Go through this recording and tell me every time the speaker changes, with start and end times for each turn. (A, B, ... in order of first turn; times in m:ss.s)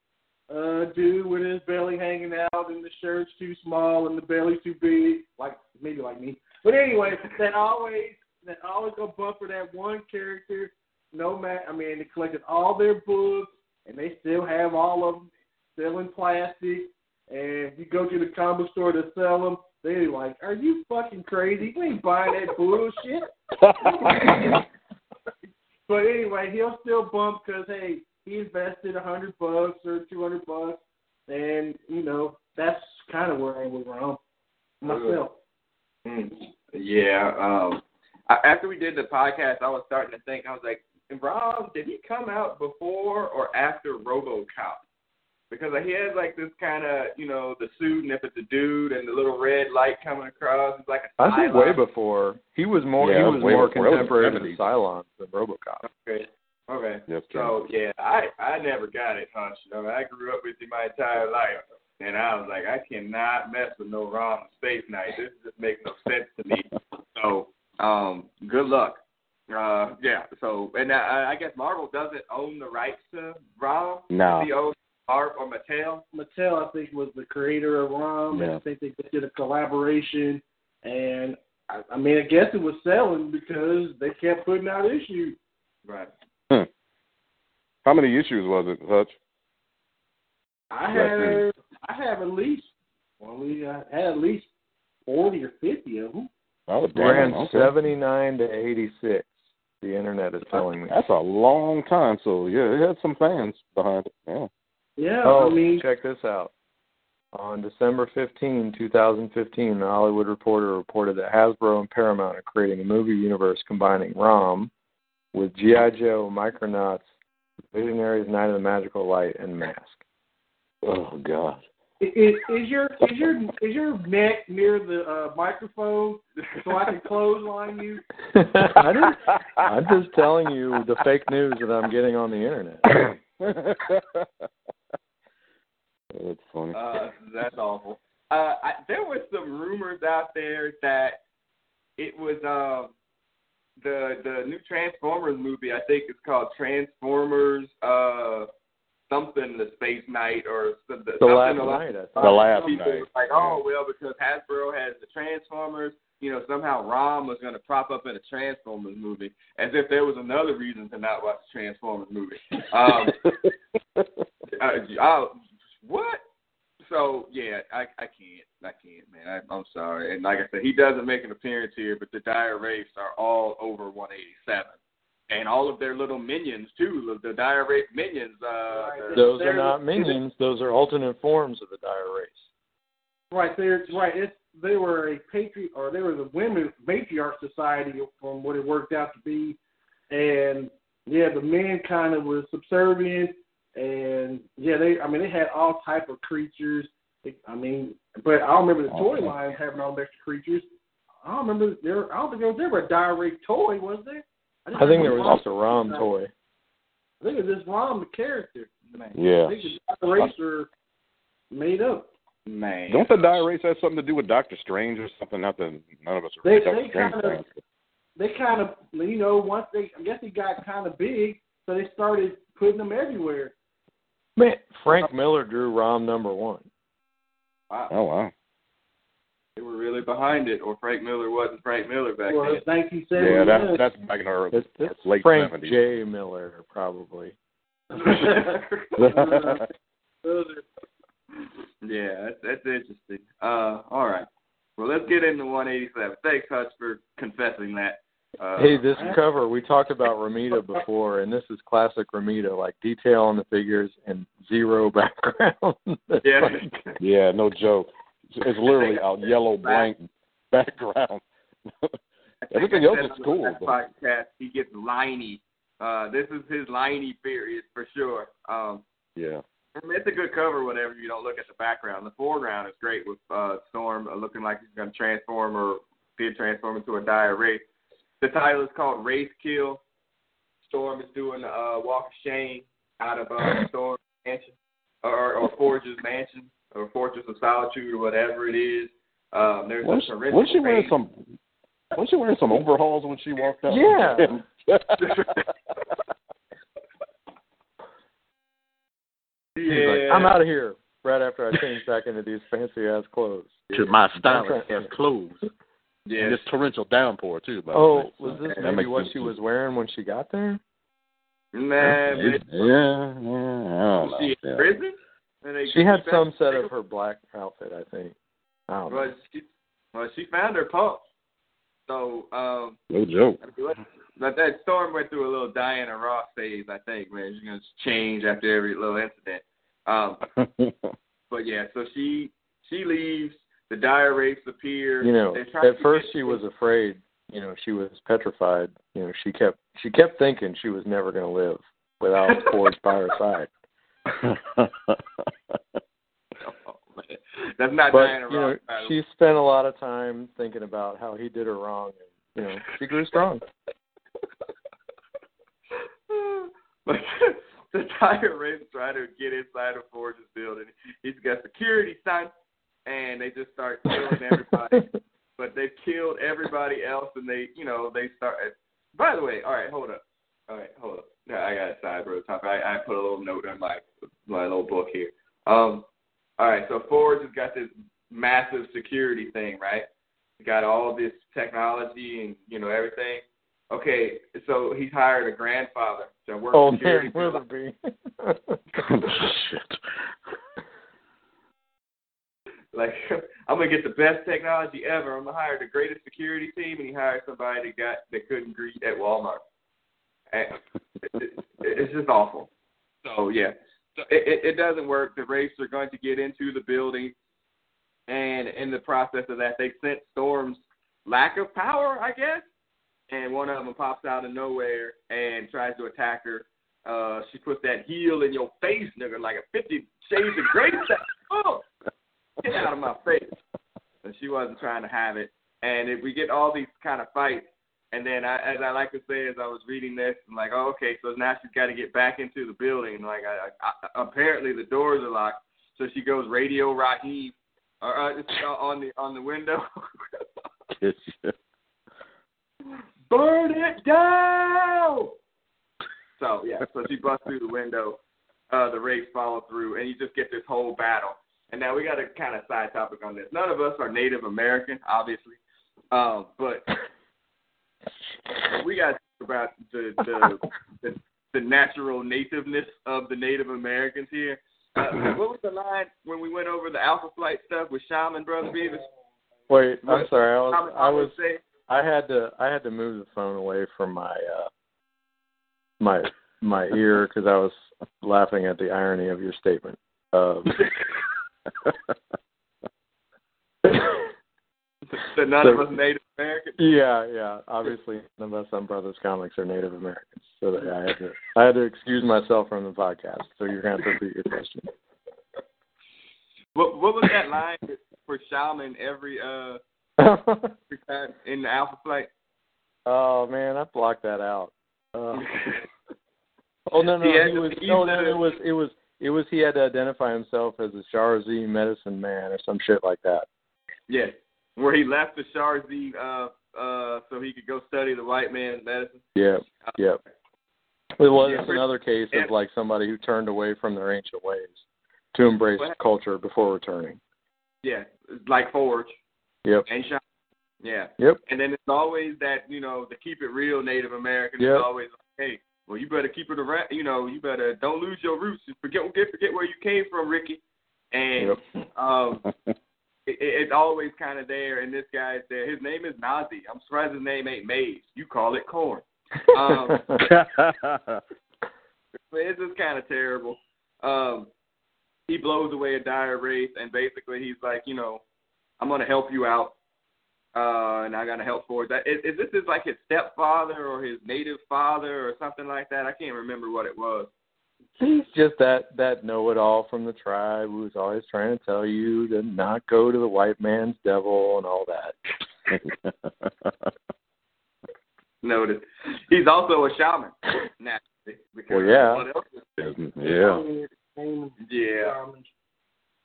0:00.5-0:24.5 A
0:23.7-0:24.4 B
0:25.9-0:34.2 A
0:34.8-0:35.4 A
0:34.8-0:35.2 C
0:36.0-0:44.8 C
0:45.5-0:51.8 C
0:51.2-0:55.8 D
0:53.0-0:54.6 B
0:55.8-1:16.0 C
0:57.1-0:57.5 B
1:14.1-1:14.5 B
1:16.1-1:25.4 A
1:18.3-1:18.6 B
1:27.8-1:29.1 B
1:30.7-1:32.7 A
1:30.9-1:31.4 B
1:33.2-1:34.5 A
1:35.0-1:36.3 A
1:36.7-1:37.7 B
1:36.9-1:41.0 D
1:40.9-1:44.5 B
1:45.0-1:45.8 A
1:45.2-1:46.5 D
1:47.3-1:54.7 D
1:55.3-1:57.0 D
1:57.7-2:00.0 D
2:00.8-2:01.6 B
2:02.0-2:08.1 A
2:08.3-2:12.9 D
2:09.3-2:09.6 B
2:12.9-2:14.2 B
2:16.1-2:16.8 B
2:16.7-2:21.2 C
2:22.0-2:22.9 C
2:23.8-2:28.5 C
2:29.1-2:43.2 C
2:31.2-2:32.5 D
2:32.2-2:33.6 B
2:44.5-2:46.2 C
2:46.8-2:54.8 C
2:55.3-2:59.3 C
2:58.7-3:00.1 A
2:59.1-3:02.5 D
3:03.3-3:09.6 A
3:10.1-3:20.7 A
3:18.9-3:19.3 B
3:21.2-3:26.1 A
3:24.8-3:26.3 D
3:25.0-3:25.2 B
3:27.2-3:28.8 A
3:29.1-3:30.3 B
3:29.4-3:30.7 A
3:31.5-3:32.1 A
3:32.4-3:33.4 C
3:32.9-3:37.5 B
3:36.4-3:37.4 A
3:38.2-3:43.5 A
3:44.4-3:46.6 D
3:47.9-3:48.3 B
3:49.6-3:52.6 C
3:52.3-3:53.8 A
3:53.2-3:55.8 B
3:54.5-3:57.3 D
3:58.0-3:59.7 A
3:58.2-3:58.6 C
3:59.0-3:59.6 B
4:00.2-4:00.6 A
4:01.8-4:08.8 C
4:08.6-4:16.7 D
4:10.5-4:10.8 A
4:16.2-4:17.0 C
4:17.0-4:21.2 B
4:18.7-4:19.0 C
4:19.6-4:19.9 C
4:22.5-4:28.8 C
4:22.5-4:23.7 B
4:29.2-4:29.4 B
4:29.8-4:37.6 C
4:38.2-4:39.8 C
4:40.7-4:50.9 C
4:49.8-4:51.2 B
4:51.9-4:55.4 B
4:53.7-4:54.4 D
4:59.6-5:00.4 C
4:59.6-5:04.9 D
5:03.7-5:05.4 B
5:06.0-5:06.4 C
5:06.2-5:09.3 B
5:07.7-5:10.6 D
5:11.5-5:12.5 C
5:11.9-5:14.6 B
5:14.0-5:16.7 C
5:15.6-5:18.1 D
5:18.7-5:19.1 D
5:18.9-5:21.0 C
5:21.9-5:22.8 C
5:22.9-5:23.4 B
5:23.4-5:30.2 C
5:30.4-5:30.9 B
5:31.3-5:36.4 C
5:35.0-5:43.5 D
5:44.2-5:45.0 B
5:46.4-5:48.9 C
5:47.9-5:53.4 D
5:56.1-6:02.3 C
6:02.8-6:15.8 C
6:16.4-6:19.9 C
6:20.4-6:27.4 C
6:26.5-6:28.8 D
6:28.8-6:29.8 B
6:32.7-6:39.4 C
6:40.3-6:42.5 C
6:43.0-6:47.1 C
6:48.1-6:52.4 C
6:53.1-7:01.6 C
7:02.4-7:03.3 C
7:04.0-7:20.2 C
7:20.8-7:21.3 B
7:23.1-7:25.1 C
7:26.2-7:28.0 C
7:28.5-7:35.4 C
7:35.9-7:36.7 C
7:38.5-7:48.8 C
7:49.5-7:51.1 D
7:49.8-7:51.4 C
7:51.7-7:54.5 D
7:55.8-8:00.6 D
8:03.6-8:04.1 D
8:04.9-8:06.6 C
8:06.6-8:14.7 D
8:16.6-8:19.6 C
8:20.0-8:20.5 D
8:20.7-8:22.1 C
8:22.8-8:25.3 D
8:25.2-8:25.6 C
8:26.7-8:33.3 D
8:27.0-8:28.2 C
8:33.9-8:39.0 C
8:39.1-8:40.0 D
8:41.0-8:44.6 D
8:41.2-8:42.3 C
8:45.1-8:47.0 D
8:47.6-8:49.0 C
8:49.6-8:50.0 C
8:50.6-9:02.2 C
8:54.4-8:54.6 D
9:03.0-9:09.8 C
9:09.4-9:10.0 D
9:10.0-9:11.0 B
9:12.1-9:14.3 C
9:15.1-9:18.0 C
9:18.6-9:19.6 C
9:20.3-9:27.1 C
9:27.8-9:35.0 D
9:35.5-9:36.5 B
9:38.2-9:42.7 C
9:41.5-9:42.0 D
9:42.6-9:43.4 B
9:43.0-9:45.3 A
9:44.4-9:45.0 C